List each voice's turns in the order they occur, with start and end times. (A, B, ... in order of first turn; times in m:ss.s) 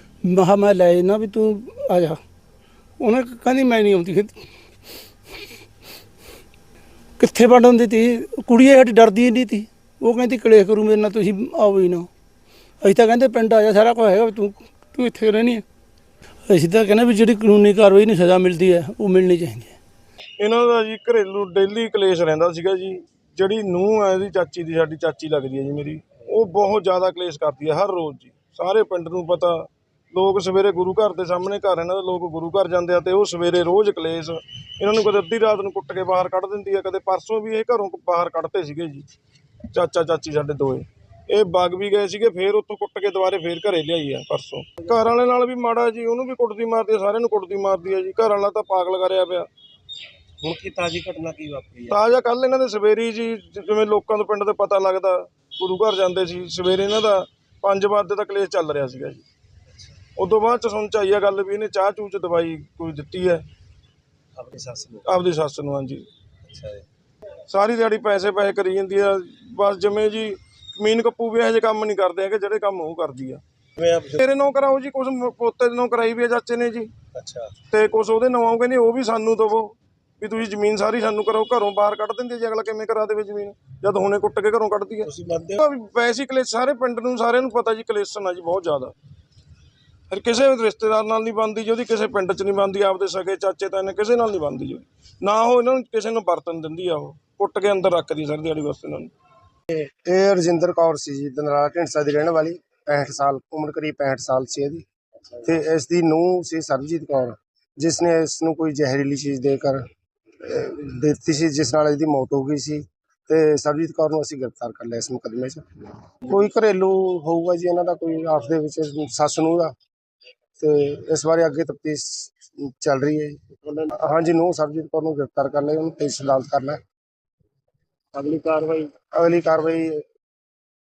0:00.2-0:02.2 A
0:03.0-0:04.4 A
0:07.2-0:12.1 A
0:12.8-0:15.6 A
0:16.5-0:19.7 A
0:20.4-0:39.0 B
0:39.7-0:49.5 B
0:50.4-0:52.0 C
0:51.9-0:59.2 B
1:00.2-1:03.4 B
1:04.4-1:05.0 C
1:05.0-1:06.0 B
1:06.5-1:06.8 C
1:07.5-1:13.4 B
1:13.8-1:14.2 C
1:14.2-1:16.9 B
1:17.2-1:17.5 C
1:17.7-1:28.9 B
1:25.2-1:25.6 C
1:30.1-1:39.1 B
1:40.0-1:44.8 D
1:45.4-1:49.8 D
1:50.4-1:55.6 D
1:56.2-1:59.7 D
2:00.6-2:06.8 D
2:09.1-2:10.0 D